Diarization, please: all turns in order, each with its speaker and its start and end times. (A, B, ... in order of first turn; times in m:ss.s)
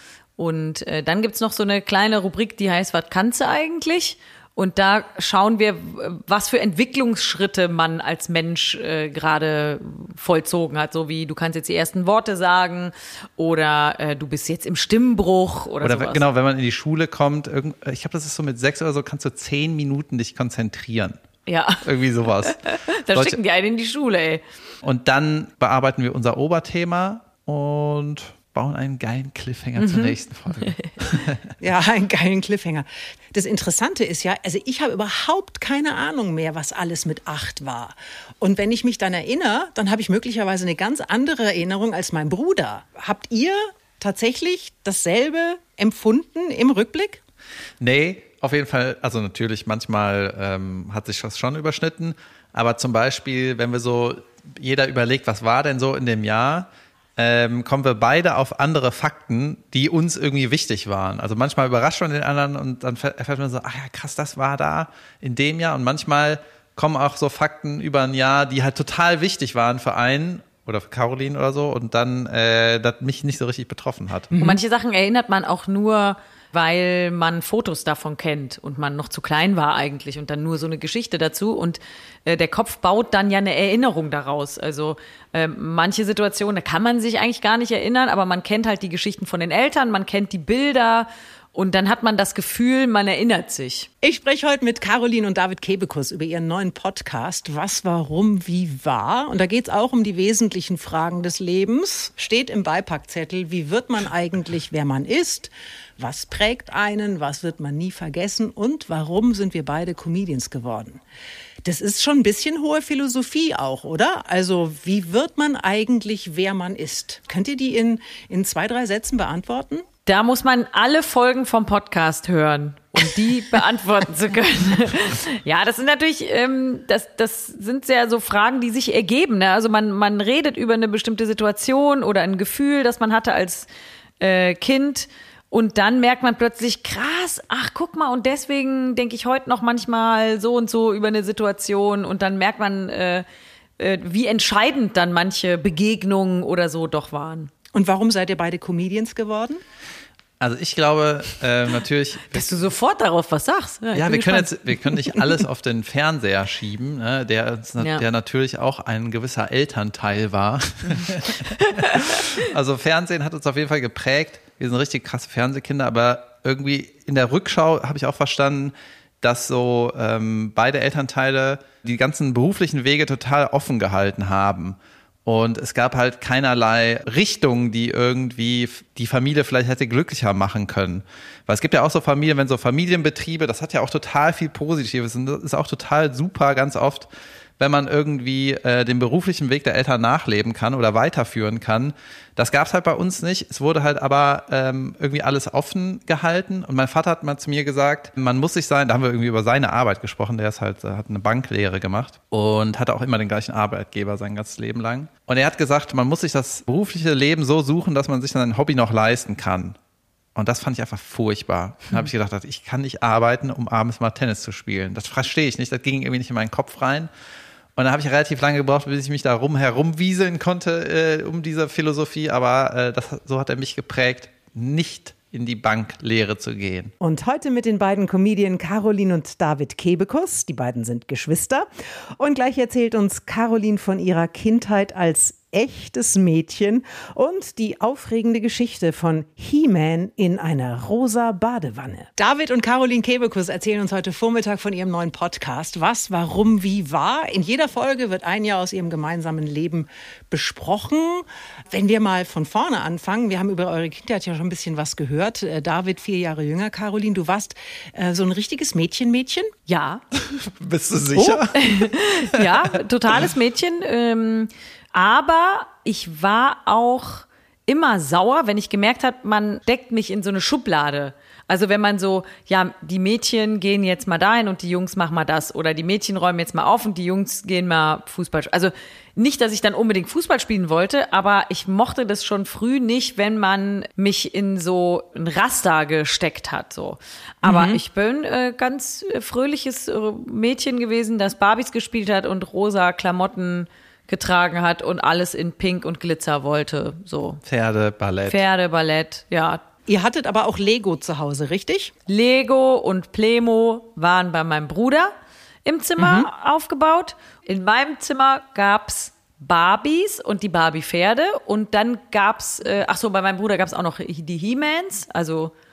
0:00.4-0:16.2 A
0:15.8-0:21.2 B
0:21.5-0:21.8 A
0:21.8-0:22.6 B
0:22.4-0:24.4 A
0:23.1-0:23.4 B
0:24.8-0:31.4 B
0:29.8-0:30.2 A
0:31.6-0:47.2 C
0:47.8-1:14.3 B
1:14.3-1:14.6 C
1:14.4-1:33.9 A
1:34.0-1:51.0 C
1:51.6-1:59.8 C
2:00.1-2:13.7 A
2:14.2-2:23.2 A
2:23.8-2:27.5 A
2:27.7-2:29.6 C
2:30.4-2:32.6 B
2:32.3-2:35.3 A
2:33.9-3:07.1 B
2:37.8-2:38.0 A
2:41.6-2:42.4 A
3:07.6-3:29.8 B
3:30.4-3:37.1 B
3:37.8-3:46.9 B
3:47.0-4:19.5 C
4:19.7-4:20.0 A
4:20.2-4:21.9 B
4:21.2-4:21.4 C
4:21.5-4:57.4 A
4:47.4-4:47.8 C
4:57.4-4:58.4 B
4:58.3-4:59.6 A
4:59.9-5:01.9 C
5:02.1-5:05.1 A
5:05.6-5:15.5 A
5:06.0-5:06.3 C